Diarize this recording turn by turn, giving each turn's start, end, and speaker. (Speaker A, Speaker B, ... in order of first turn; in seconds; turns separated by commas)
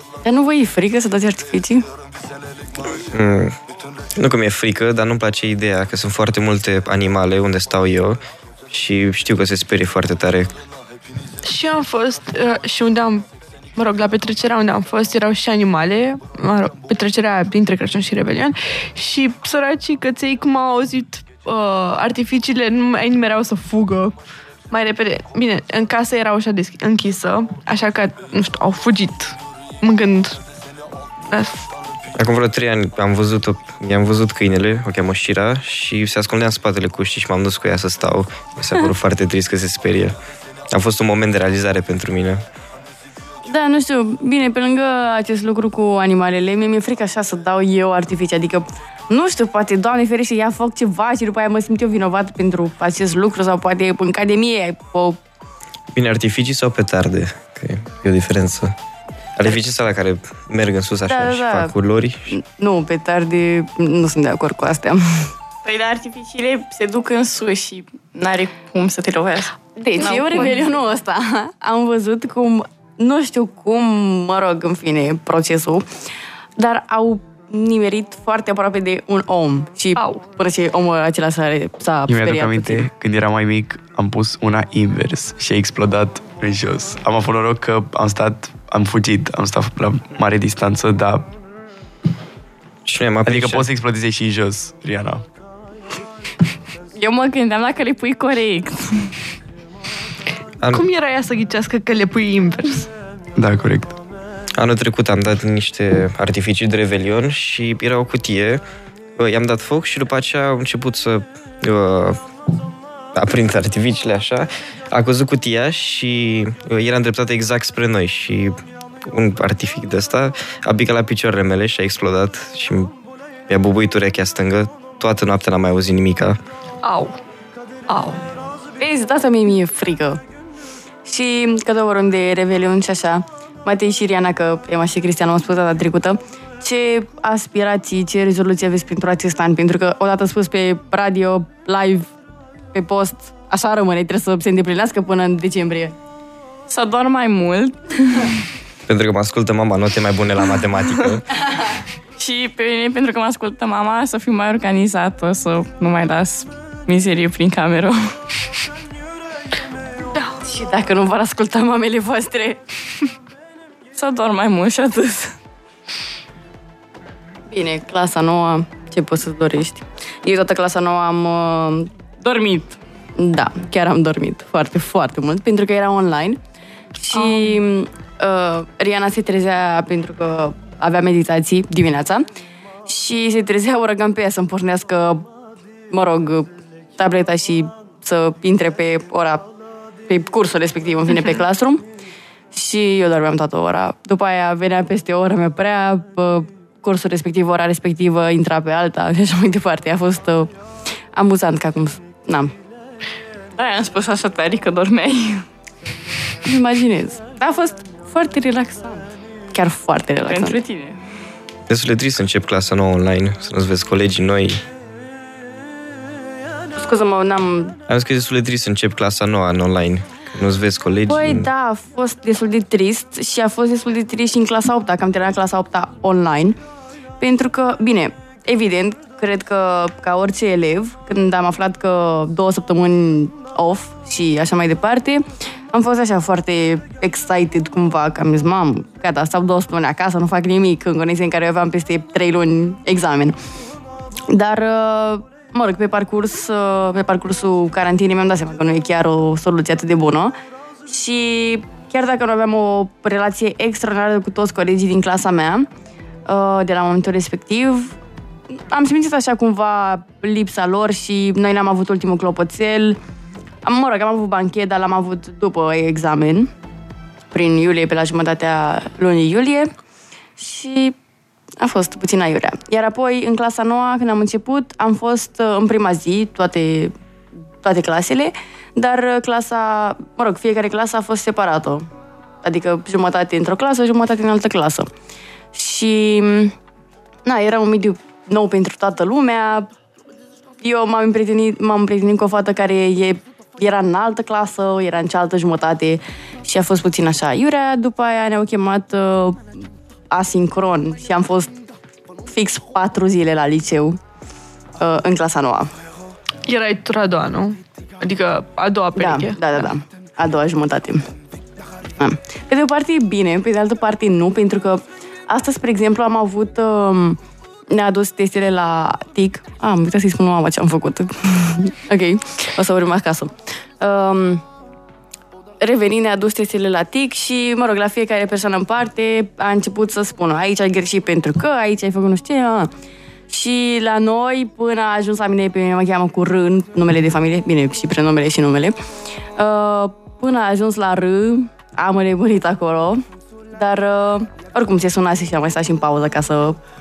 Speaker A: 0.2-1.9, Speaker B: 3.1-3.6, Speaker B: 4.2-8.2, Speaker B: 8.7-10.5, Speaker C: 11.4-24.1, Speaker C: 24.7-30.4, Speaker C: 31.3-31.7, Speaker B: 32.1-40.1, Speaker B: 40.7-42.4, Speaker A: 43.5-55.2, Speaker B: 55.9-58.7, Speaker B: 59.4-62.3, Speaker A: 61.1-61.7, Speaker A: 62.3-65.3, Speaker D: 65.6-70.5, Speaker A: 69.8-75.8, Speaker C: 70.0-70.5, Speaker A: 76.6-82.9, Speaker C: 80.0-80.2, Speaker E: 82.1-91.3, Speaker B: 92.8-93.7, Speaker E: 93.2-95.2, Speaker D: 97.0-99.1, Speaker C: 100.7-102.9, Speaker E: 103.3-104.0, Speaker B: 104.5-108.6, Speaker B: 109.2-112.2, Speaker B: 113.1-122.9, Speaker B: 123.5-126.4, Speaker C: 126.8-127.2, Speaker C: 127.9-128.2, Speaker A: 128.8-130.2, Speaker A: 131.0-142.1, Speaker A: 142.7-145.9, Speaker D: 146.7-148.3, Speaker B: 148.9-151.3, Speaker D: 152.2-158.1, Speaker A: 160.4-162.6, Speaker D: 163.9-165.3, Speaker A: 167.5-171.9, Speaker D: 172.2-172.8, Speaker A: 173.2-176.4, Speaker A: 177.0-182.2, Speaker C: 177.1-177.5, Speaker A: 182.9-185.3, Speaker A: 185.9-189.5, Speaker A: 190.1-191.8, Speaker A: 192.5-200.5, Speaker A: 201.1-202.5, Speaker D: 203.6-205.4, Speaker A: 206.4-210.6, Speaker D: 210.2-211.0, Speaker B: 211.7-214.6, Speaker A: 216.8-217.8, Speaker B: 217.9-221.5, Speaker A: 221.1-226.6, Speaker A: 227.2-243.3, Speaker A: 244.3-250.3, Speaker A: 250.8-255.7, Speaker A: 256.2-257.9, Speaker A: 258.5-263.0, Speaker A: 263.6-266.5, Speaker A: 267.3-269.7, Speaker A: 270.4-270.9, Speaker A: 271.6-276.9, Speaker A: 277.6-281.9, Speaker A: 282.4-284.9, Speaker A: 285.5-286.5, Speaker A: 287.2-289.7, Speaker A: 290.6-301.6, Speaker A: 302.3-304.0, Speaker A: 304.8-305.7, Speaker C: 306.5-309.7, Speaker A: 308.9-311.0, Speaker A: 312.0-317.2, Speaker A: 317.7-324.4, Speaker A: 325.6-332.7, Speaker A: 333.3-338.8, Speaker A: 339.4-343.0, Speaker A: 343.5-346.6